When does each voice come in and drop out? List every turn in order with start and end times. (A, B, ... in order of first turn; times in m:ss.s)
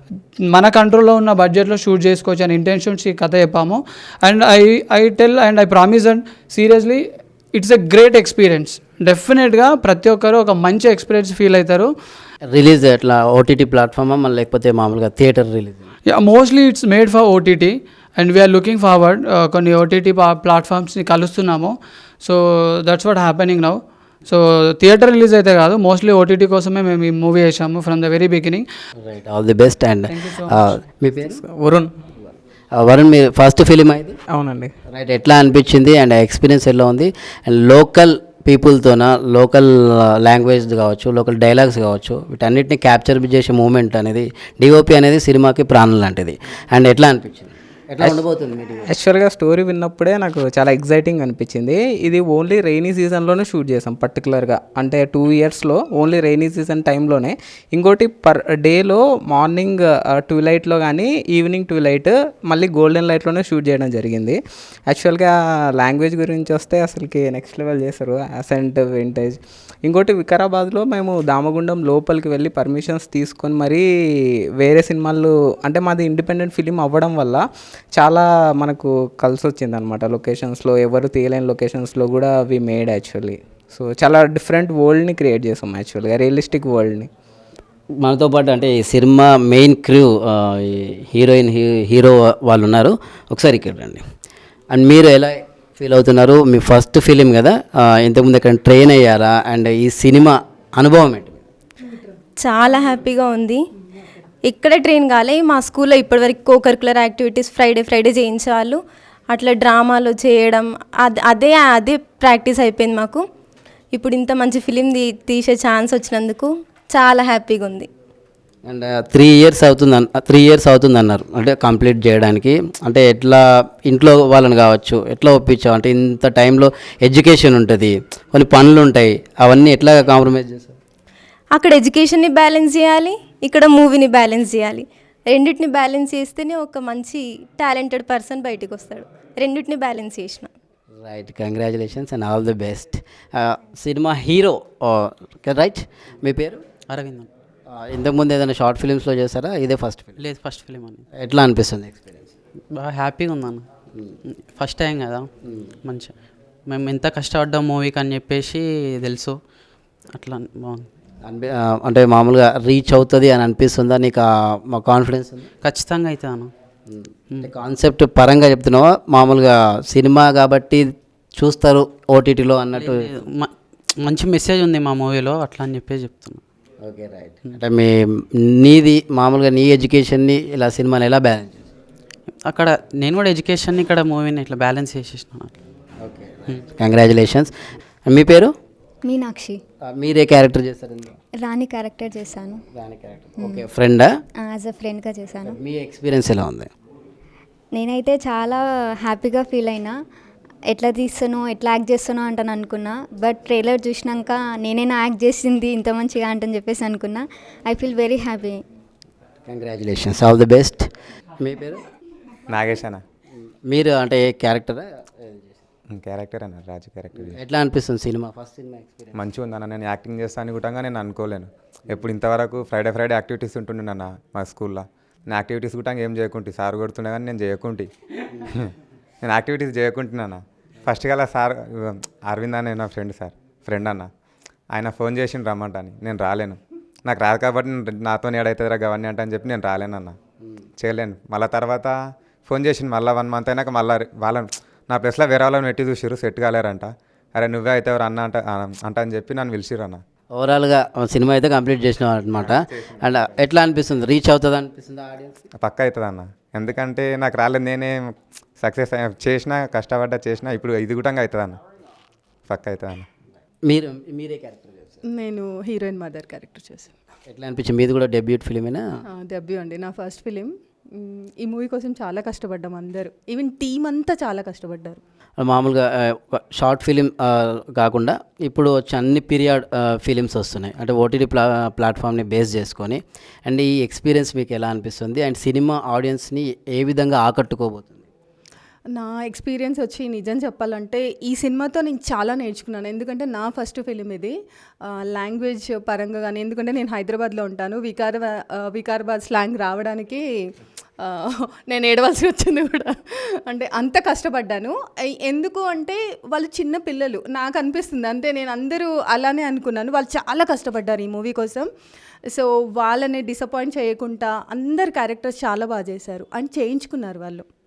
0:00.5-0:11.9 A
0:12.5-0:15.9 B
0:16.1-0:28.6 A
0:29.0-0:31.4 B
0:30.1-0:30.6 A
0:31.2-0:31.9 C
0:32.2-0:34.2 B
0:34.3-0:34.7 C
0:34.9-0:48.9 B
0:48.8-1:13.8 C
1:14.6-1:27.1 C
1:28.0-1:34.0 B
1:34.7-1:41.4 B
1:42.4-1:43.6 D
1:44.4-1:48.8 D
1:49.3-1:53.2 D
1:53.9-1:57.9 D
1:58.7-2:10.8 B
2:11.5-2:20.5 D
2:21.0-2:26.6 B
2:26.9-2:27.3 E
2:27.7-2:30.2 B
2:30.2-2:31.0 E
2:31.1-2:32.3 B
2:32.7-2:33.6 E
2:34.3-2:35.3 E
2:35.4-2:35.7 B
2:35.8-2:36.1 E
2:36.7-2:39.3 E
2:40.1-2:40.9 E
2:41.2-2:45.5 B
2:45.6-2:46.5 E
2:46.9-2:53.2 B
2:52.8-2:56.4 E
2:56.8-3:01.7 B
3:02.4-3:05.5 E
3:06.0-3:07.5 B
3:08.1-3:08.5 B
3:09.0-3:09.6 F
3:09.9-3:11.2 B
3:11.4-3:12.6 F
3:12.7-3:14.1 B
3:14.4-3:15.6 F
3:15.4-3:16.7 B
3:17.8-3:19.9 F
3:20.7-3:28.6 F
3:29.5-3:30.9 B
3:31.4-3:31.8 B
3:32.5-3:33.0 G
3:33.7-3:35.6 B
3:35.9-3:37.4 G
3:37.1-3:39.2 B
3:39.2-3:47.9 G
3:49.2-3:54.1 G
3:54.7-4:00.1 G
4:00.8-4:01.9 G
4:02.5-4:10.0 G
4:10.3-4:15.4 B
4:12.3-4:13.3 G
4:15.6-4:18.0 G
4:18.6-4:21.6 G
4:22.5-4:23.0 G
4:23.7-4:25.0 B
4:25.1-4:26.9 H
4:27.3-4:28.8 B
4:29.1-4:35.0 H
4:35.4-4:48.1 B
4:49.0-4:54.3 H
4:55.1-5:00.2 H
5:01.0-5:04.7 H
5:05.2-5:11.6 H
5:12.3-5:17.4 H